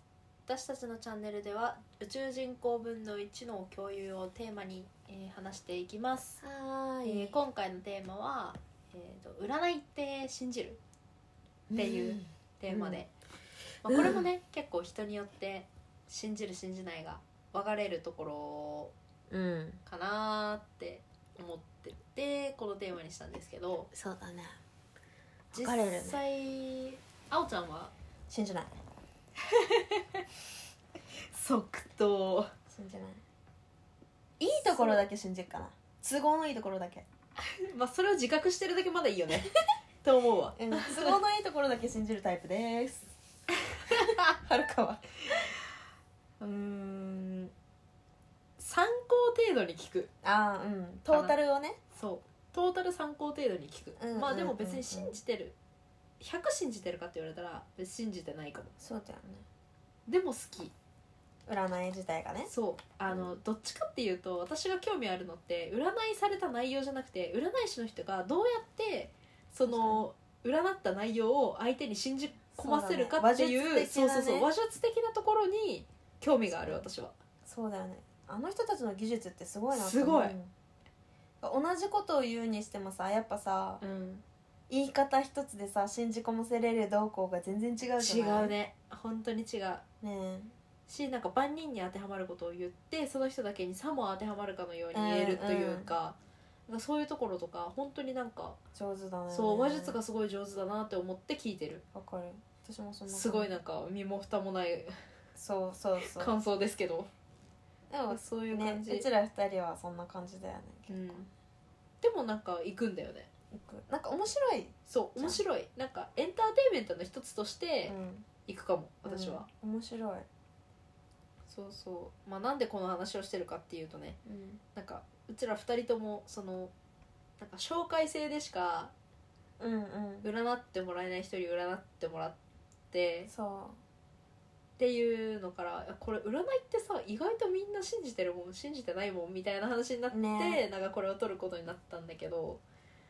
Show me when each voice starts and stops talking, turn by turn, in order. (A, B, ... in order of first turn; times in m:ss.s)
0:00.5-0:06.4 A
0:06.4-0:07.4 B
0:07.0-0:10.8 A
0:11.7-0:13.0 B
0:11.7-0:13.1 A
0:13.8-0:18.9 A
0:13.8-0:14.2 B
0:19.3-0:19.8 B
0:19.8-0:23.9 A
0:23.9-0:24.6 B
0:25.5-0:26.2 B
0:25.5-0:27.9 A
0:28.3-0:28.7 B
0:29.5-0:30.2 A
0:31.3-0:32.5 A
0:32.7-0:33.2 B
0:34.4-0:37.0 B
0:34.5-0:35.0 A
0:37.6-0:39.5 A
0:40.0-0:41.2 A
0:40.6-0:43.1 B
0:43.9-0:45.2 B
0:46.4-0:47.5 A
0:48.6-0:50.1 A
0:50.2-0:51.8 B
0:51.1-0:51.3 A
0:51.9-0:55.6 A
0:54.0-0:55.2 B
0:56.2-0:58.7 A
0:58.8-0:59.4 B
1:00.1-1:00.7 A
1:01.5-1:02.5 B
1:02.5-1:17.1 A
1:03.1-1:03.4 B
1:09.6-1:10.1 B
1:12.6-1:14.5 B
1:17.4-1:20.5 B
1:19.7-1:20.3 A
1:21.4-1:23.8 B
1:23.8-1:24.2 A
1:24.7-1:28.5 B
1:27.9-1:29.8 A
1:30.0-1:30.5 B
1:30.9-1:38.6 A
1:34.9-1:35.9 B
1:38.7-1:40.0 B
1:39.3-1:41.8 A
1:41.9-1:43.6 B
1:43.1-1:45.0 A
1:45.4-1:46.3 B
1:46.0-1:47.1 A
1:47.9-1:51.3 B
1:48.1-1:49.1 A
1:50.9-1:51.3 A
1:52.0-1:53.3 A
1:53.5-1:55.4 B
1:54.8-1:59.5 A
1:57.9-1:58.3 B
1:59.0-2:00.2 B
2:01.5-2:04.2 A
2:04.2-2:04.6 B
2:04.7-2:06.7 A
2:07.4-2:08.9 A
2:09.6-2:10.3 B
2:10.2-2:12.4 A
2:12.9-2:13.3 A
2:13.3-2:13.8 B
2:14.8-2:22.6 A
2:20.1-2:20.6 B